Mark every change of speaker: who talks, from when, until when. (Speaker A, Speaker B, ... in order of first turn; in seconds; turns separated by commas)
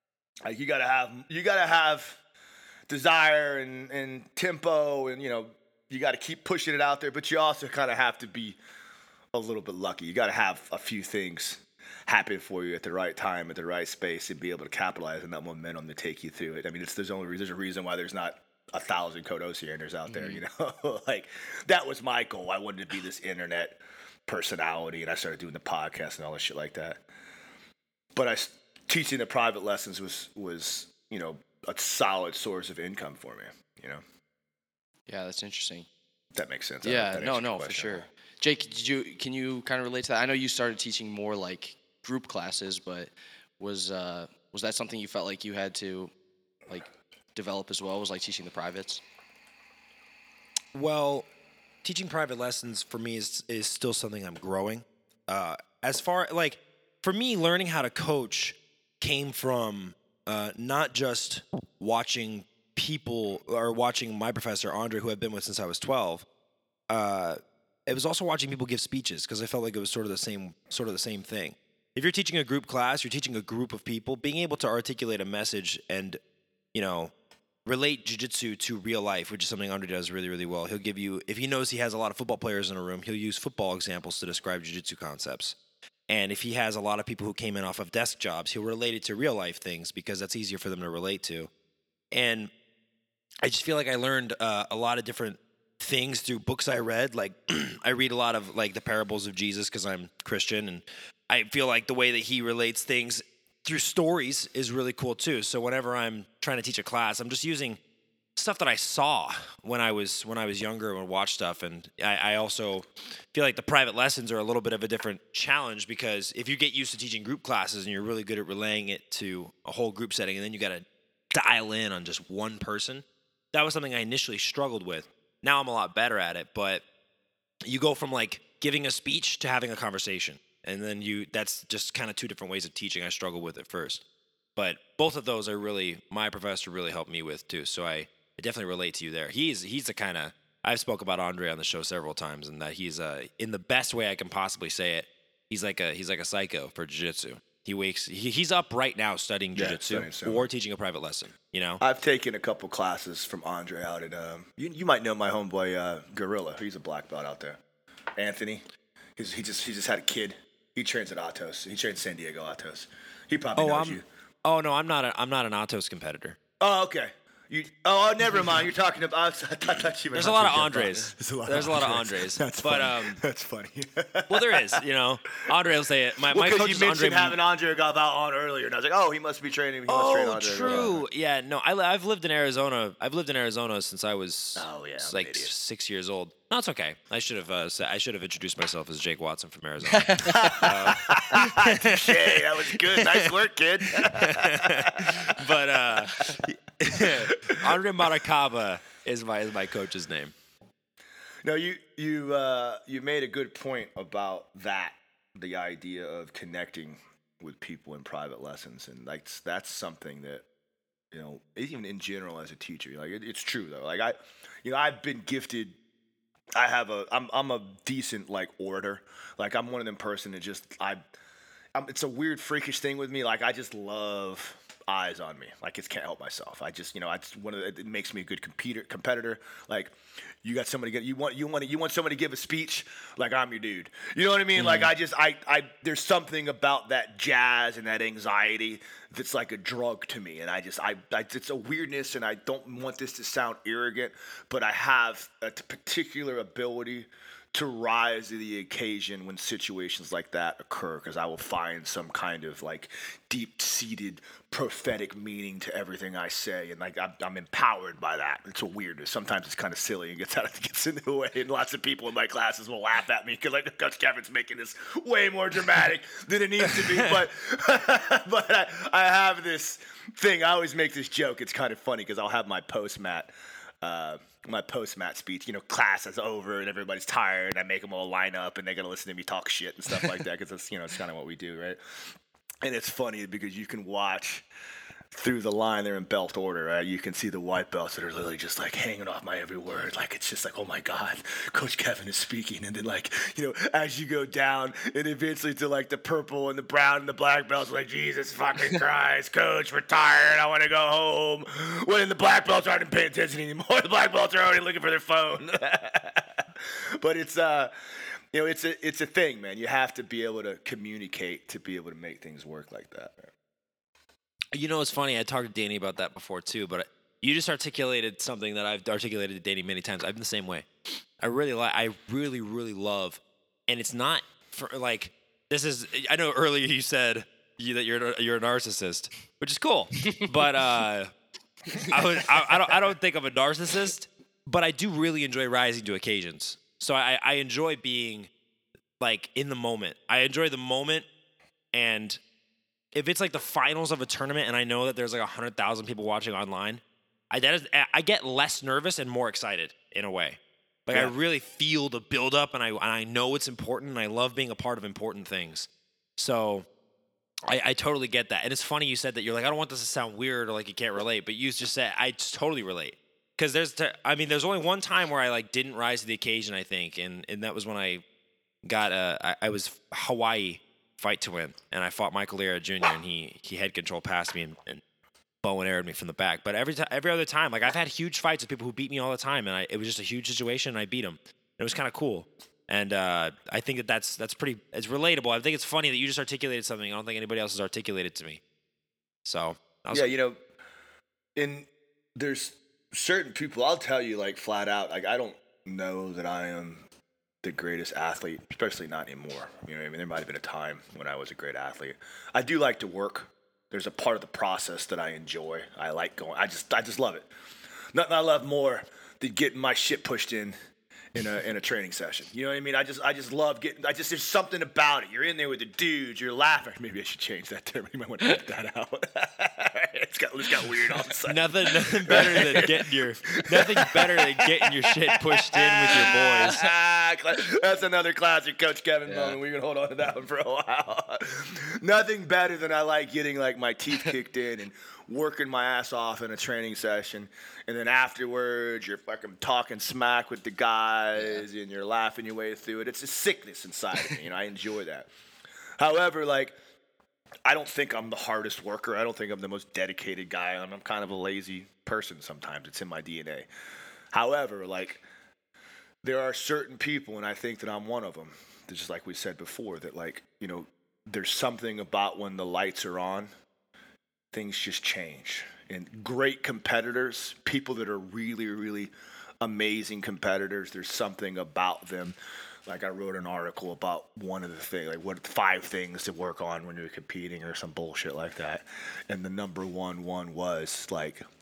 Speaker A: 0.5-2.2, Speaker A: 2.9-8.6, Speaker A: 9.3-27.0, Speaker B: 20.1-20.4, Speaker A: 28.1-34.0, Speaker B: 35.1-35.9, Speaker A: 36.3-38.1, Speaker B: 36.8-43.1, Speaker B: 43.6-46.1, Speaker B: 46.7-49.0, Speaker C: 50.7-51.3, Speaker C: 51.8-66.3, Speaker C: 66.9-76.2, Speaker C: 76.7-77.1, Speaker C: 77.7-85.6, Speaker C: 86.1-91.5, Speaker C: 92.1-92.5, Speaker C: 93.4-107.8, Speaker C: 108.4-126.8, Speaker C: 127.7-134.0, Speaker C: 134.6-151.8, Speaker A: 149.6-150.5, Speaker A: 151.8-157.6, Speaker A: 158.2-158.7, Speaker A: 159.2-164.0, Speaker C: 163.6-166.4, Speaker A: 166.6-174.8, Speaker C: 170.1-173.2, Speaker C: 174.3-177.4, Speaker A: 176.3-181.0, Speaker C: 179.9-193.3, Speaker A: 184.6-185.5, Speaker B: 189.9-190.7, Speaker A: 190.2-195.4, Speaker C: 193.9-200.3, Speaker A: 196.3-197.8, Speaker A: 201.4-210.4, Speaker A: 211.1-215.8, Speaker A: 216.6-221.0, Speaker A: 221.8-281.8, Speaker C: 234.6-234.9, Speaker A: 282.6-284.5, Speaker A: 285.1-307.7, Speaker A: 308.3-313.3, Speaker C: 314.5-320.7, Speaker C: 321.2-331.1, Speaker C: 331.7-338.3, Speaker C: 339.0-341.1, Speaker C: 341.7-342.2, Speaker C: 342.9-356.7, Speaker C: 357.5-368.0, Speaker C: 368.6-374.8, Speaker C: 375.4-388.4, Speaker C: 389.2-390.1, Speaker A: 389.9-390.4, Speaker A: 391.4-396.9, Speaker A: 397.4-407.3, Speaker A: 407.9-410.6, Speaker A: 411.1-445.1, Speaker C: 421.2-426.6, Speaker B: 429.1-429.4, Speaker B: 441.2-441.4, Speaker A: 445.8-446.6, Speaker A: 447.5-453.5, Speaker A: 454.1-455.0, Speaker A: 456.0-463.3, Speaker A: 464.3-481.2